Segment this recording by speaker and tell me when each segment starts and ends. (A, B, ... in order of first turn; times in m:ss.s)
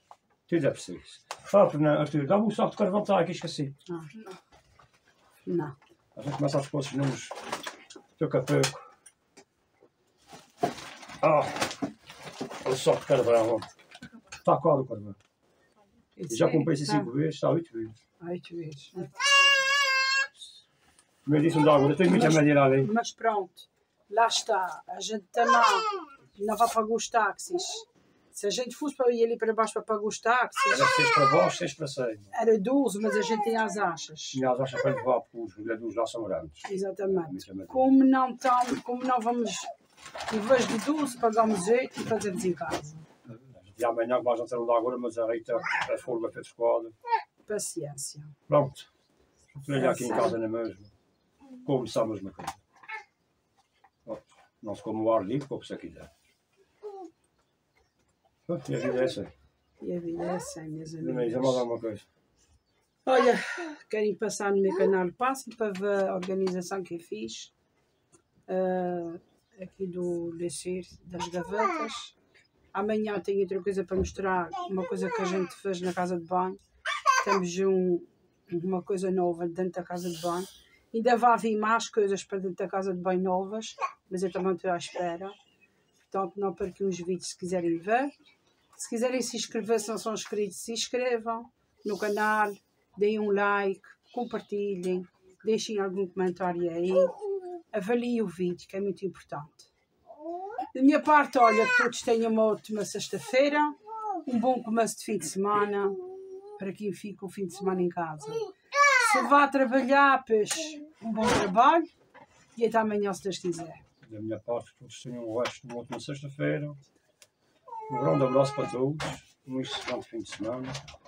0:00.5-0:03.8 A
0:03.9-0:04.2 B
0:05.4-0:05.8 B
0:06.1-0:07.4 A
0:08.2-0:08.9 A
0:11.2-0:11.7 A
0:12.6-0:13.7 A
0:14.4-0:15.2 A
0:16.2-0:17.1 B
0:16.3-0:18.0 A
0:18.2-0:19.2 B
0:21.2-0:22.9 A
0:22.0-0:30.9 B
0:30.7-0:32.3 A
0:32.3-0:34.4 B
0:34.3-0:37.9 A
0:36.6-0:39.7 B
0:40.3-0:43.0 B
0:43.3-0:46.9 A
0:47.5-0:48.4 B
0:48.5-0:48.9 A
0:49.5-0:50.9 A
0:49.7-0:50.4 B
0:51.6-0:52.6 A
0:54.0-0:56.1 A
0:58.5-0:59.3 A
0:59.8-1:01.6 B
1:01.0-1:02.0 A
1:03.1-1:07.5 B
1:08.5-1:12.1 B
1:12.7-1:16.6 B
1:17.2-1:25.4 B
1:26.1-1:28.1 B
1:28.7-1:37.1 B
1:37.7-1:39.7 B
1:40.8-1:46.0 B
1:46.6-1:48.4 B
1:49.0-1:51.9 B
1:52.6-1:53.8 B
1:54.0-1:56.8 A
1:57.9-2:00.8 A